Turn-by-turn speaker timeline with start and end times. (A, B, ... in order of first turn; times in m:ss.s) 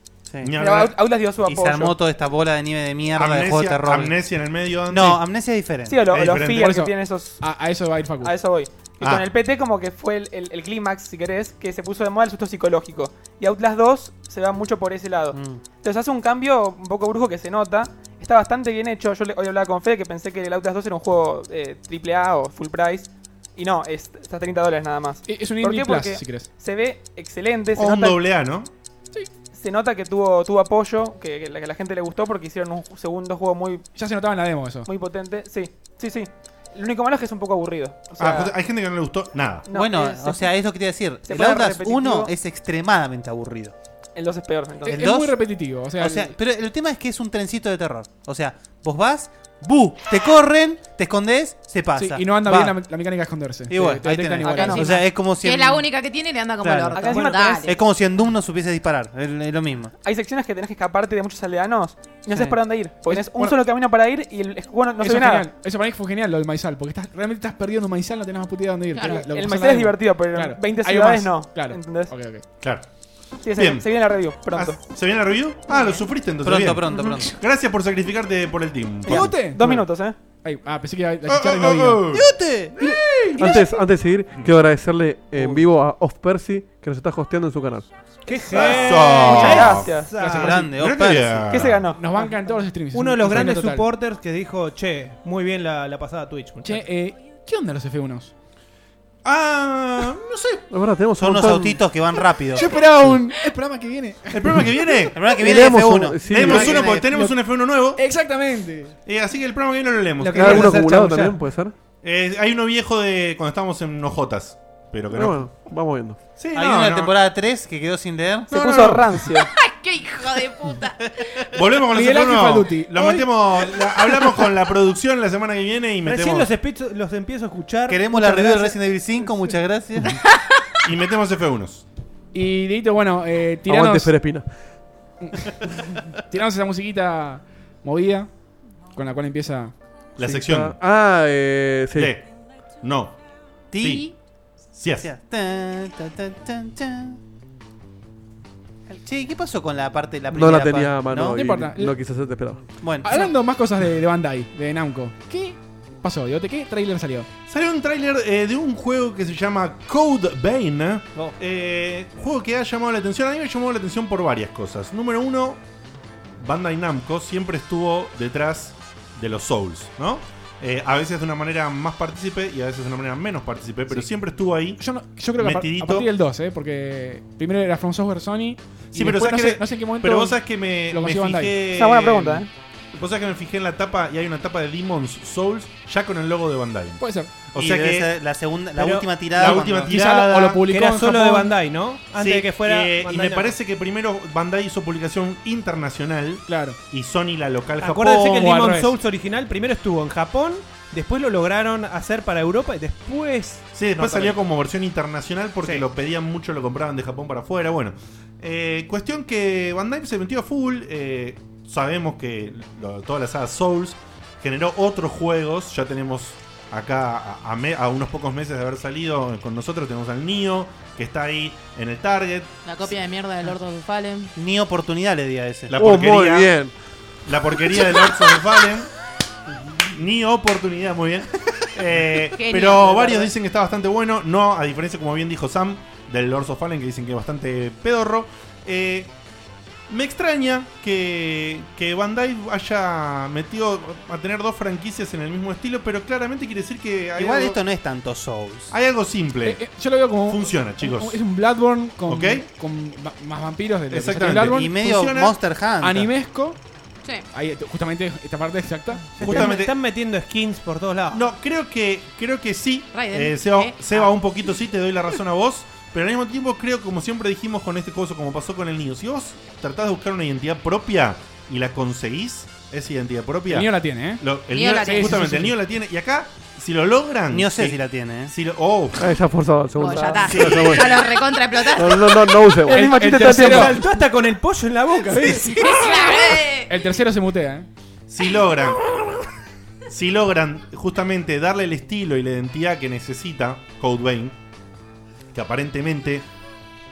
0:00.4-0:01.0 A
0:00.6-0:01.9 B
0:01.4-0:04.2 C
0:03.1-0:05.2 A
0:04.9-0:06.0 C
0:05.9-0:07.4 B
0:06.1-0:06.7 A
0:06.5-0:08.3 D
0:08.2-0:28.2 B
0:09.0-0:09.3 A
0:15.3-0:15.6 C
0:25.2-0:26.5 D
0:27.7-0:28.7 A
0:29.5-0:33.8 B
0:33.9-0:34.9 D
0:34.8-0:38.5 B
0:38.2-0:39.7 A
0:39.7-0:40.5 B
0:39.7-0:43.7 C
0:41.2-0:42.3 B
0:44.2-0:45.0 B
0:44.8-0:46.3 D
0:44.9-0:45.4 C
0:46.0-0:52.8 C
0:51.9-0:55.0 D
0:53.7-0:55.9 C
0:54.5-0:57.7 E
0:54.5-0:55.0 B
0:56.6-0:59.9 C
0:56.9-0:57.7 B
1:00.0-1:05.5 B
1:03.0-1:03.6 D
1:05.0-1:12.4 D
1:08.9-1:09.2 E
1:09.0-1:12.1 B
1:12.6-1:12.8 A
1:13.4-1:14.8 B
1:13.5-1:19.3 A
1:15.8-1:17.4 C
1:19.0-1:22.0 D
1:19.1-1:20.2 B
1:21.3-1:23.6 A
1:22.1-1:22.9 C
1:23.4-1:27.9 F
1:28.2-1:30.7 G
1:28.5-1:30.4 B
1:28.6-1:30.0 A
1:29.3-1:29.6 C
1:30.2-1:31.6 C
1:30.6-1:31.8 A
1:31.5-1:32.3 B
1:31.9-1:33.9 D
1:32.9-1:36.8 G
1:36.6-1:38.3 D
1:39.2-1:40.6 A
1:40.7-1:41.8 F
1:41.2-1:42.7 C
1:42.5-1:45.1 D
1:44.3-1:45.2 A
1:45.1-1:47.3 C
1:45.3-1:46.7 F
1:46.2-1:48.0 A
1:46.8-1:47.3 D
1:48.0-1:48.9 D
1:49.0-1:50.9 A
1:50.2-1:51.4 G
1:50.3-1:51.7 F
1:52.0-1:55.5 A
1:55.1-1:56.2 F
1:56.4-1:57.2 A
1:56.5-1:59.0 C
1:58.5-1:59.5 B
1:58.7-1:59.1 A
1:59.4-2:01.4 E
2:01.5-2:06.5 A
2:01.9-2:03.2 D
2:06.0-2:08.8 G
2:07.9-2:10.2 C
2:10.8-2:11.8 A
2:12.3-2:14.1 D
2:13.7-2:14.4 F
2:15.2-2:18.3 D
2:18.9-2:19.7 D
2:20.2-2:20.7 A
2:20.2-2:22.1 F
2:22.0-2:22.2 A
2:22.8-2:23.2 A
2:23.7-2:24.1 C
2:23.8-2:24.1 A
2:24.7-2:25.1 A
2:25.0-2:27.2 C
2:28.9-2:31.4 C
2:30.3-2:32.6 F
2:31.3-2:32.0 D
2:32.8-2:33.3 C
2:33.0-2:37.3 D
2:37.5-2:45.6 A
2:46.4-2:54.8 A
2:54.8-3:01.6 D
2:55.4-2:56.1 A
2:58.9-3:07.0 A
3:01.7-3:02.5 B
3:07.0-3:07.3 D
3:07.5-3:08.1 A
3:07.6-3:09.9 C
3:08.8-3:09.6 G
3:09.3-3:10.6 A
3:09.9-3:11.5 D
3:10.6-3:13.5 G
3:12.1-3:18.5 A
3:16.5-3:16.8 D
3:17.8-3:24.4 G
3:18.4-3:18.9 D
3:23.7-3:42.5 A
3:42.6-3:44.3 E
3:44.4-3:45.7 C
3:45.7-3:46.6 A
3:45.7-3:46.7 F
3:47.2-3:48.9 A
3:49.9-3:59.1 A
3:52.4-3:53.3 E
3:59.9-4:07.6 A
4:07.2-4:08.7 C
4:08.7-4:09.6 A
4:09.4-4:14.7 D
4:10.3-4:11.2 A
4:12.1-4:12.4 A
4:13.9-4:15.4 A
4:14.5-4:16.1 C
4:15.8-4:16.6 D
4:17.3-4:19.5 D
4:19.2-4:21.2 G
4:19.2-4:19.8 A
4:21.1-4:39.2 A
4:22.9-4:24.0 E
4:33.5-4:34.2 D
4:34.5-4:35.3 E
4:34.8-4:35.5 D
4:37.3-4:38.3 C
4:39.0-4:41.0 F
4:39.8-4:42.2 E
4:40.2-4:41.0 A
4:41.7-4:43.5 F
4:42.7-4:43.7 B
4:42.7-4:43.8 D
4:42.8-4:45.8 G
4:45.6-4:46.7 E
4:46.7-4:47.7 D
4:48.1-4:48.9 A
4:49.9-4:54.4 A
4:55.3-4:56.2 A